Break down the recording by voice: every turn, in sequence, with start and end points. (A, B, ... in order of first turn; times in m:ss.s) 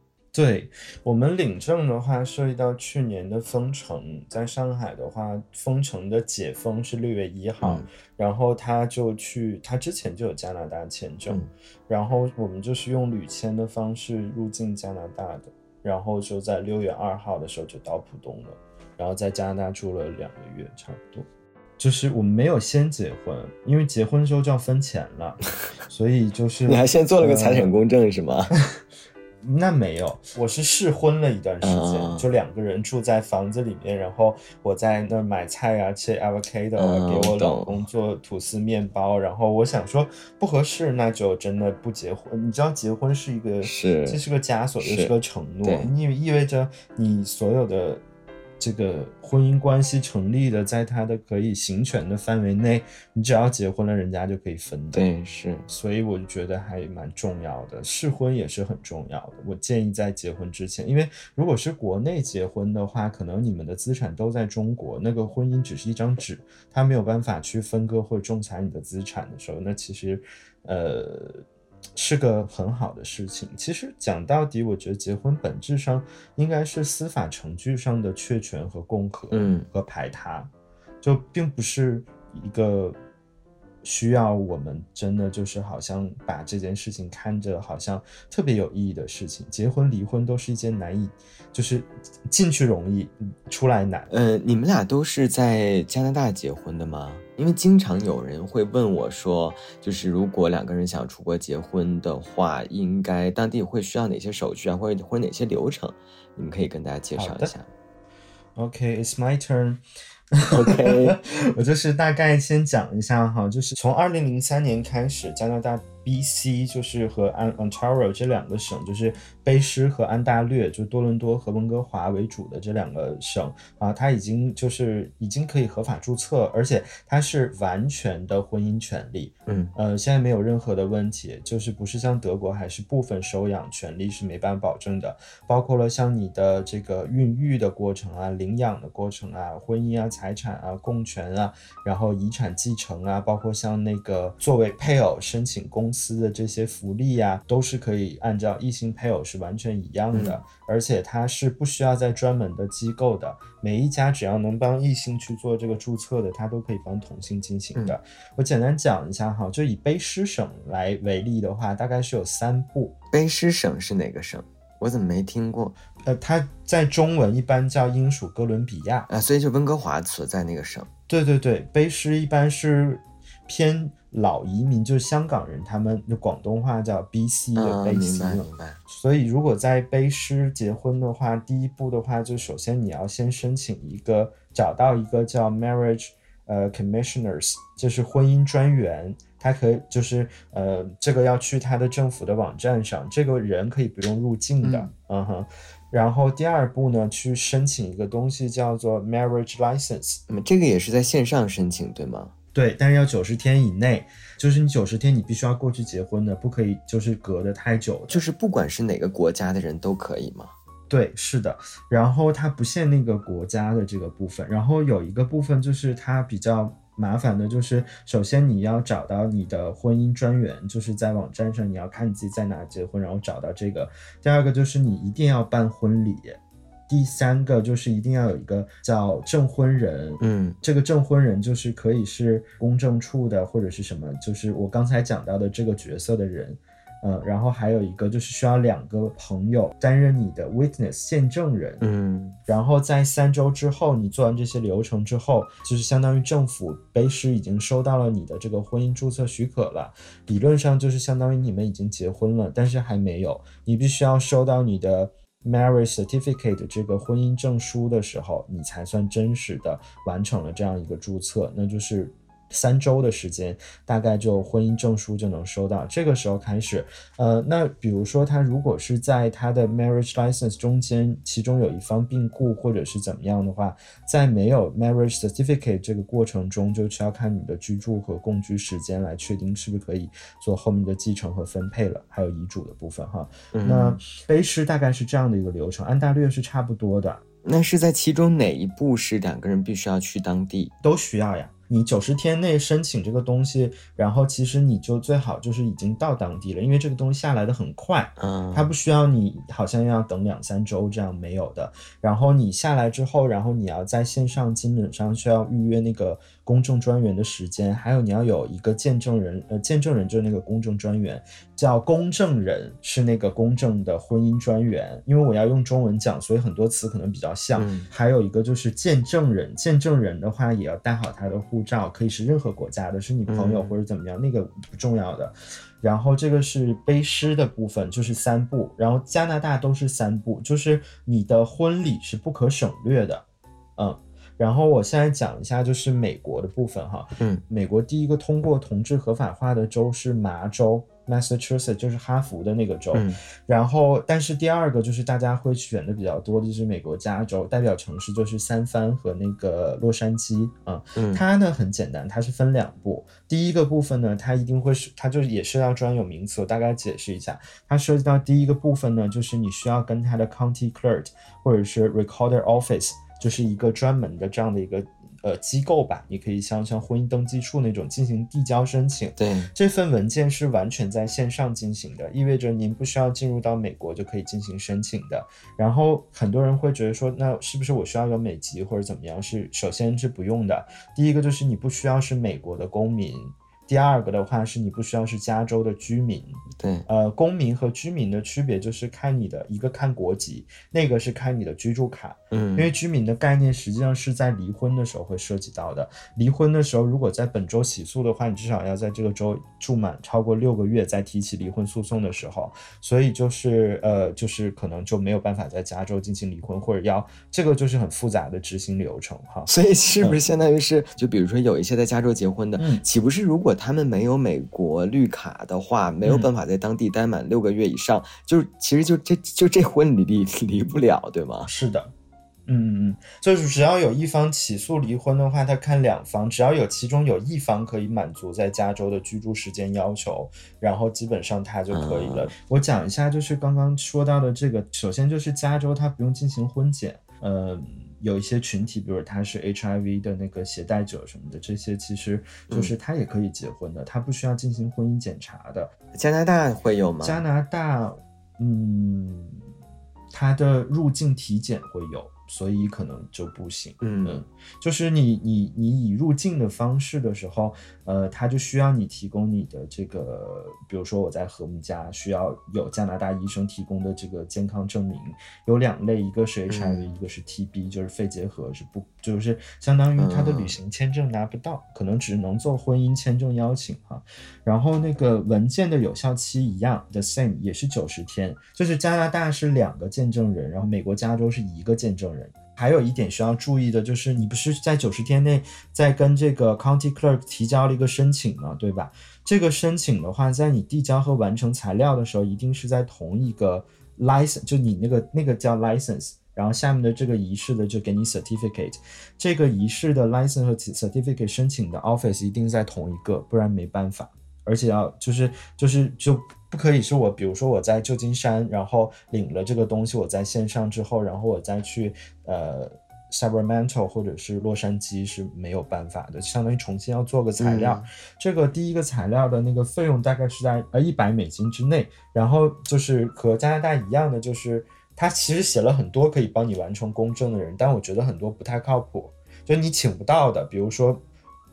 0:00.3-0:21.3 A
0:21.8-0:27.7 A
0:26.6-0:28.5 B
0:29.4-0:48.0 A
0:31.6-0:32.2 B
0:36.8-0:37.8 B
0:43.6-0:44.2 B
0:44.8-0:45.1 B
0:45.6-0:45.9 B
0:48.6-0:55.0 A
0:54.9-0:55.6 B
0:55.7-1:11.4 A
1:12.0-1:20.5 A
1:19.3-1:19.7 B
1:21.0-1:23.0 A
1:23.8-1:34.1 A
1:34.1-1:47.7 B
1:47.2-1:47.5 A
1:48.6-1:49.8 A
1:50.3-2:42.9 A
1:50.5-1:51.2 B
2:09.5-2:09.7 B
2:30.1-2:30.4 B
2:43.1-2:45.8 B
2:46.0-2:49.1 A
2:49.1-2:50.9 B
2:51.1-3:20.2 A
2:57.6-2:58.8 B
3:14.6-3:14.9 B
3:20.3-3:22.3 B
3:22.5-3:28.2 A
3:28.1-3:30.5 B
3:30.9-4:01.8 A
3:50.2-3:50.6 B
4:01.8-4:02.4 B
4:02.5-4:47.2 A
4:43.5-4:44.0 B
4:47.4-4:50.7 B
4:50.8-5:33.2 A
4:58.2-4:58.7 B
5:17.6-5:17.9 B
5:23.3-5:23.8 B
5:33.8-6:49.5 A
5:37.2-5:37.4 B
5:42.9-5:43.2 B
5:51.0-5:51.2 B
6:09.2-6:09.5 B
6:26.6-6:26.9 B
6:32.3-6:32.7 B
6:49.5-7:01.5 B
6:52.6-6:52.8 A
6:56.0-6:56.3 A
7:01.4-7:01.9 A
7:02.5-7:25.7 A
7:11.7-7:12.3 B
7:25.9-7:27.2 B
7:27.0-7:29.4 A
7:30.1-8:51.0 A
7:33.8-7:34.2 B
7:46.5-7:46.8 B
7:50.0-7:50.5 B
8:37.4-8:37.9 B